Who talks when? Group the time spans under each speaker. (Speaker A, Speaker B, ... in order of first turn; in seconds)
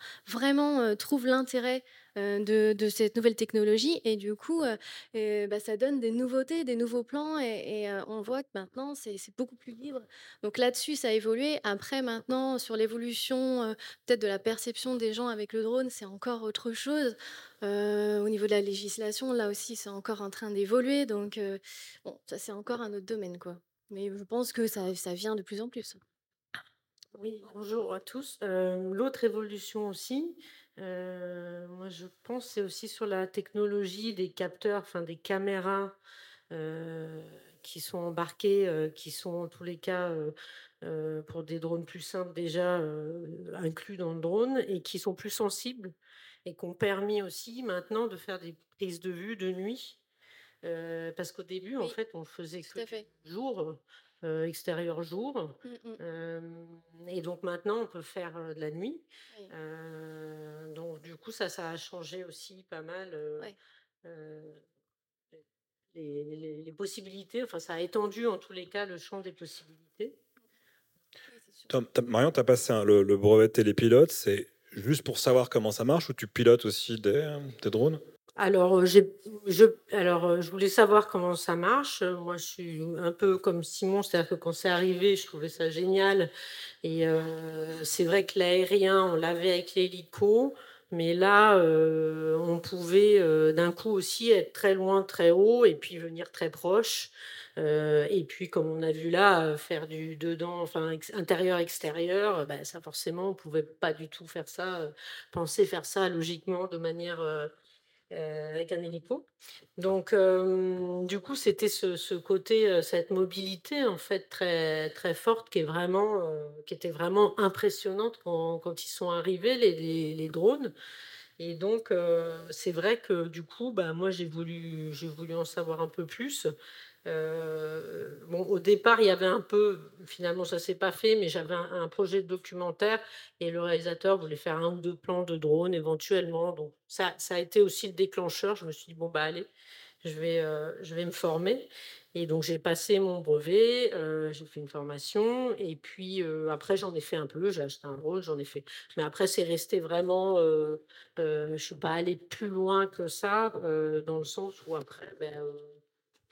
Speaker A: 0.3-26.0, 52.7-53.1, 55.6-56.0, 71.3-71.7
Speaker B: 27.1-36.0, 36.5-45.9, 46.5-50.0, 50.6-63.5, 64.0-64.6, 65.9-70.2, 78.4-86.3, 86.8-107.5, 108.1-109.3, 109.8-120.7, 121.4-126.5, 127.0-139.5, 140.0-155.7
Speaker C: 71.7-78.0